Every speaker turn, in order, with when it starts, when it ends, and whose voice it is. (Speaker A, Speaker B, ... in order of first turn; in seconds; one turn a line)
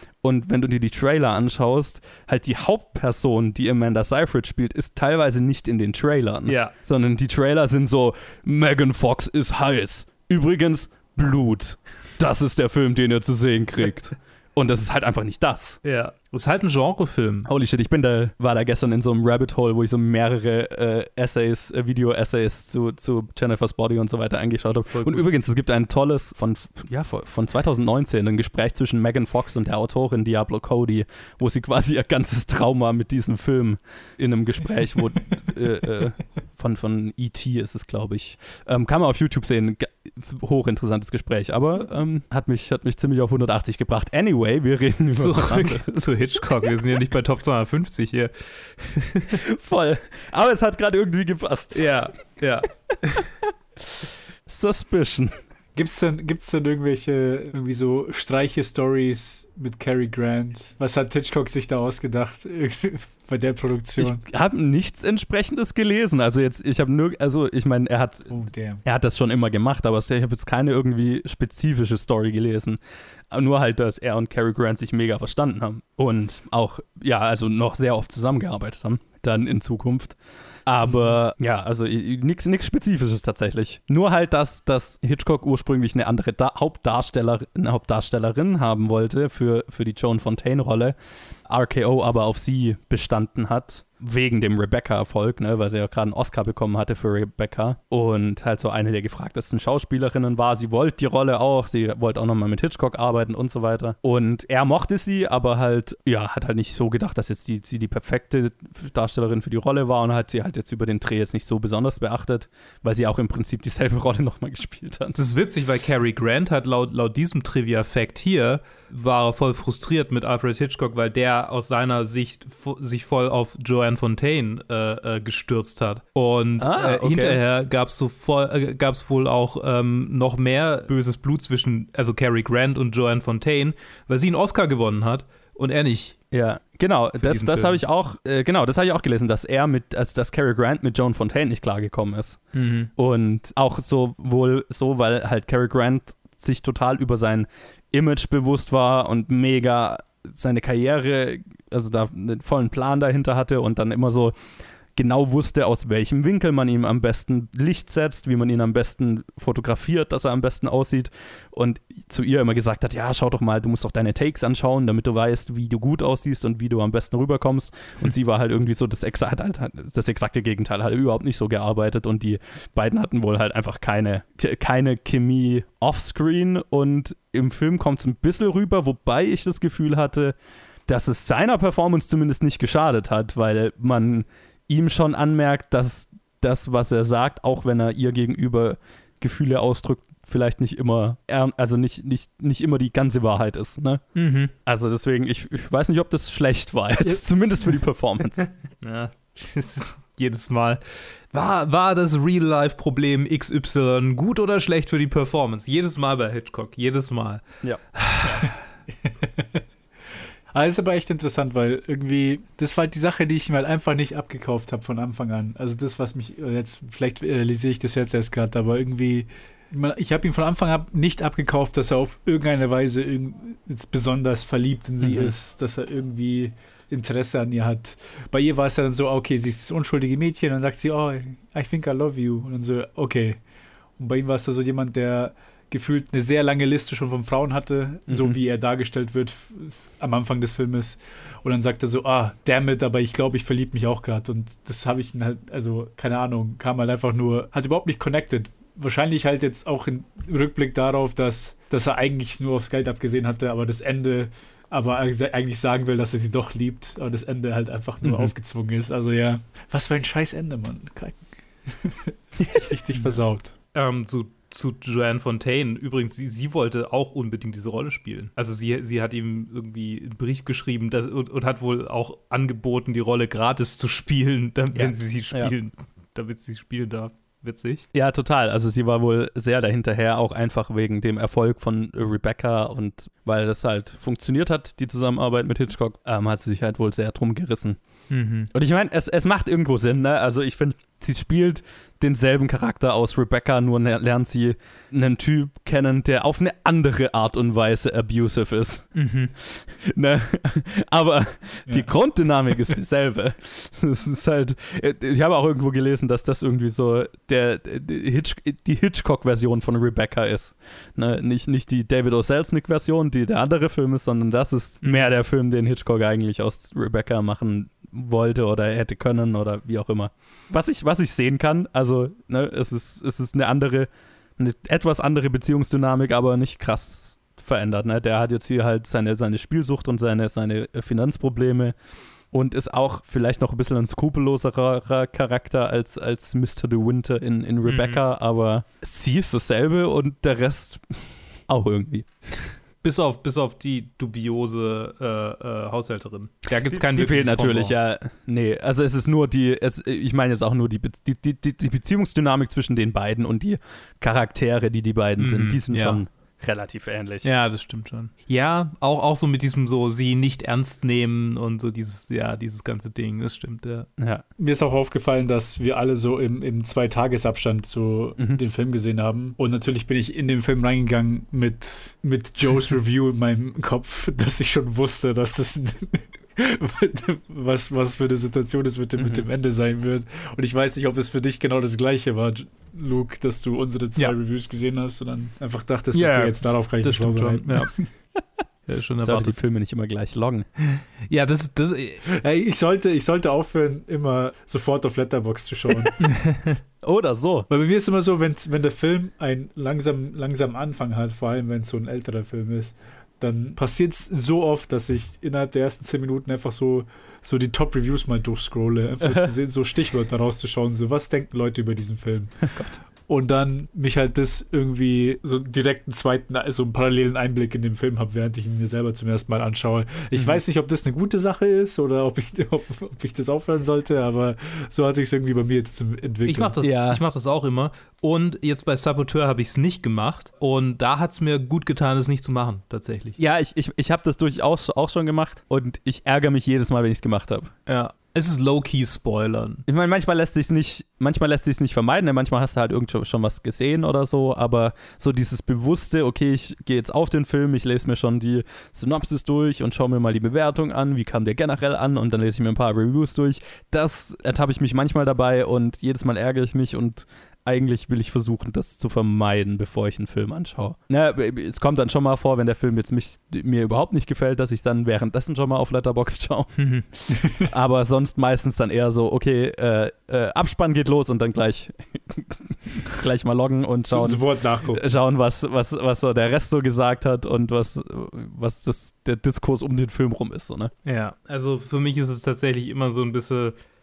Speaker A: 0.2-15.8
Speaker B: 6.5-6.7
Speaker B: 15.8-17.5
Speaker A: 17.5-46.1
Speaker B: 24.9-25.3
Speaker B: 45.1-49.4
Speaker A: 49.4-51.9
Speaker B: 51.7-53.3
Speaker A: 53.9-55.4
Speaker C: 55.8-64.2
Speaker A: 64.0-72.8
Speaker C: 68.3-68.8
Speaker A: 73.3-115.2
Speaker B: 115.2-136.2
Speaker A: 126.6-127.4
Speaker A: 136.3-142.4
Speaker B: 137.2-137.8
Speaker B: 142.6-142.9
Speaker A: 143.0-154.3
Speaker A: 154.9-180.3
Speaker A: 180.9-194.0
Speaker B: 194.2-194.5
Speaker A: 194.7-198.5
Speaker B: 198.8-208.6
Speaker A: 207.6-208.4
Speaker C: 209.0-209.6
Speaker C: 210.5-233.4
Speaker A: 225.0-225.3
Speaker C: 234.0-263.5
Speaker A: 238.1-238.4
Speaker A: 258.0-258.3
Speaker A: 262.4-262.7
Speaker B: 263.7-277.9
Speaker A: 274.7-275.5
Speaker A: 277.9-287.8
Speaker B: 288.1-288.5
Speaker A: 288.5-331.8
Speaker B: 298.9-299.3
Speaker A: 332.3-342.1
Speaker B: 337.6-338.0
Speaker B: 342.8-347.7
Speaker A: 346.7-357.3
Speaker B: 355.2-356.0
Speaker B: 357.2-363.9
Speaker A: 364.0-364.2
Speaker C: 364.4-387.9
Speaker A: 379.0-379.2
Speaker B: 385.9-387.7
Speaker B: 388.7-389.4
Speaker A: 389.0-390.5
Speaker B: 391.1-392.1
Speaker C: 392.1-396.1
Speaker B: 396.0-396.6
Speaker A: 396.8-397.5
Speaker C: 397.5-426.6
Speaker A: 409.0-409.3
Speaker A: 412.5-412.8
Speaker B: 426.3-433.2
Speaker A: 426.6-427.0
Speaker A: 433.2-437.5
Speaker B: 437.7-439.6
Speaker A: 439.7-480.7
Speaker B: 466.6-466.9
Speaker C: 473.9-474.9
Speaker B: 480.9-483.6